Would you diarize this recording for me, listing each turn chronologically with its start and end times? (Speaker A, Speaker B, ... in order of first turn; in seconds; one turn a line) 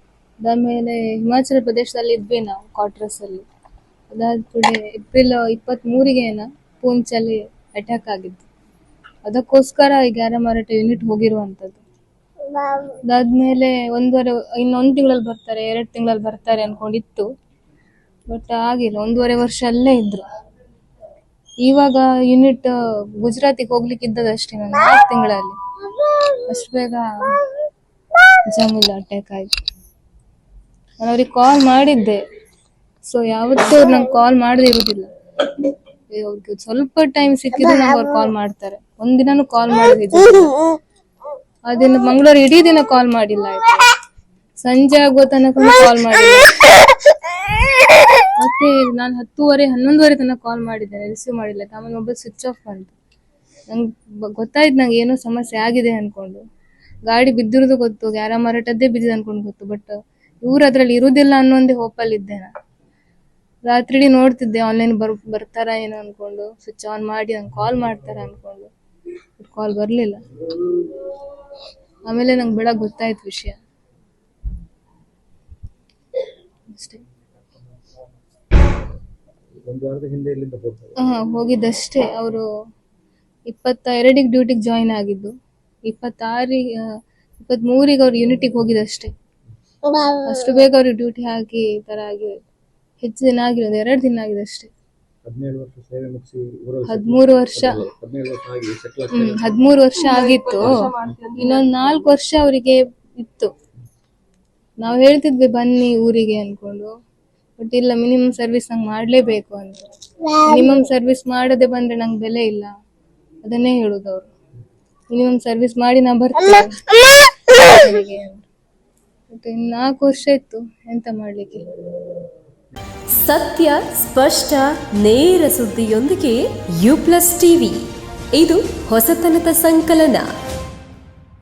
Speaker A: 0.4-3.5
Speaker A: 4.1-8.5
Speaker A: 9.2-11.8
Speaker A: 12.7-17.3
Speaker A: 18.3-20.2
Speaker A: 21.6-25.6
Speaker A: 26.3-27.5
Speaker A: 28.5-29.5
Speaker A: 31.0-32.2
Speaker A: 33.0-35.1
Speaker A: 36.1-40.7
Speaker A: 41.7-43.9
Speaker A: 44.6-46.9
Speaker A: 48.2-52.9
Speaker A: 53.7-56.4
Speaker A: 57.0-62.5
Speaker A: 63.7-68.7
Speaker A: 69.4-70.7
Speaker A: 72.1-73.6
Speaker A: 76.7-77.0
Speaker B: 79.6-81.0
Speaker A: 81.0-82.5
Speaker A: 83.5-85.3
Speaker A: 85.9-89.1
Speaker A: 90.0-92.4
Speaker A: 93.0-94.7
Speaker B: 95.2-99.5
Speaker A: 96.9-97.8
Speaker A: 99.1-103.5
Speaker A: 104.8-106.9
Speaker A: 107.6-112.7
Speaker A: 113.4-114.3
Speaker A: 115.1-118.5
Speaker A: 119.3-121.6
Speaker C: 123.2-127.8
Speaker C: 128.3-130.3